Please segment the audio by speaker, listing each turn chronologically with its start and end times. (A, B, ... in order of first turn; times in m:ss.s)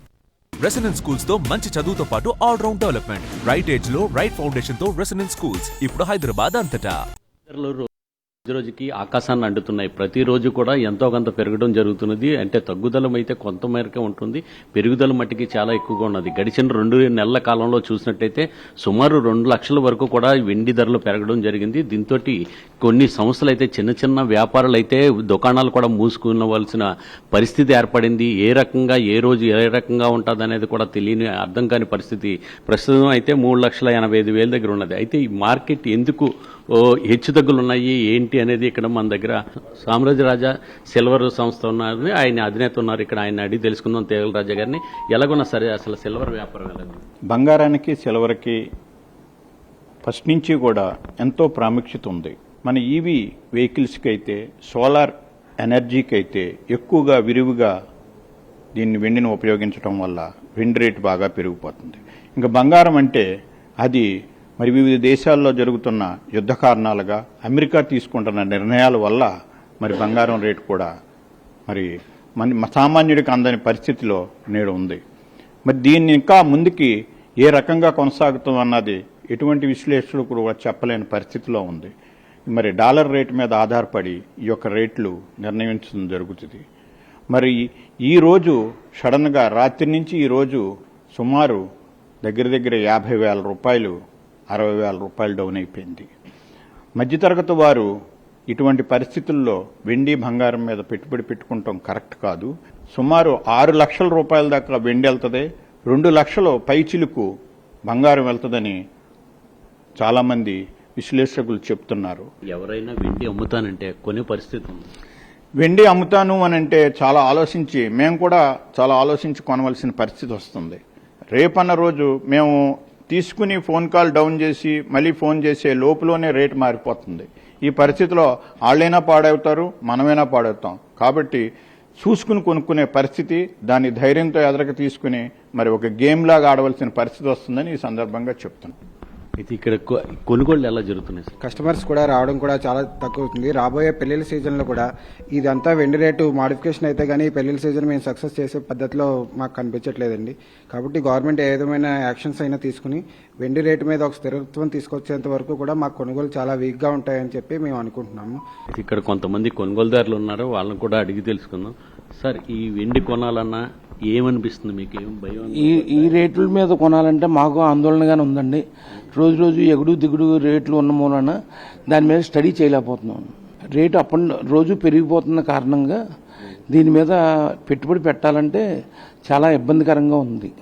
0:00.6-0:07.0 A
0:07.5-0:07.9 B
0:08.5-0:47.0 B
0:47.3-0:48.6 C
0:50.0-0:57.7 C
0:58.8-1:03.3 C
1:04.6-1:09.3 C
1:09.8-1:10.9 C
1:11.7-1:15.0 C
1:15.7-1:21.9 C
1:22.5-1:26.6 C
1:27.3-1:31.6 C
1:32.2-1:34.0 C
1:34.5-1:36.1 C
1:37.0-1:37.9 C
1:38.5-1:47.3 C
1:47.9-1:48.8 C
1:50.0-1:52.3 C
1:52.5-1:54.9 B
1:55.6-2:00.8 C
2:01.3-2:02.6 C
2:03.1-2:11.4 C
2:12.0-2:18.8 C
2:19.4-2:21.3 B
2:21.4-2:38.4 D
2:38.7-2:46.2 B
2:45.6-2:48.6 E
2:49.2-2:51.3 E
2:51.9-2:53.2 E
2:53.8-2:56.0 E
2:56.7-2:57.2 E
2:57.7-2:58.6 E
2:59.3-3:00.5 E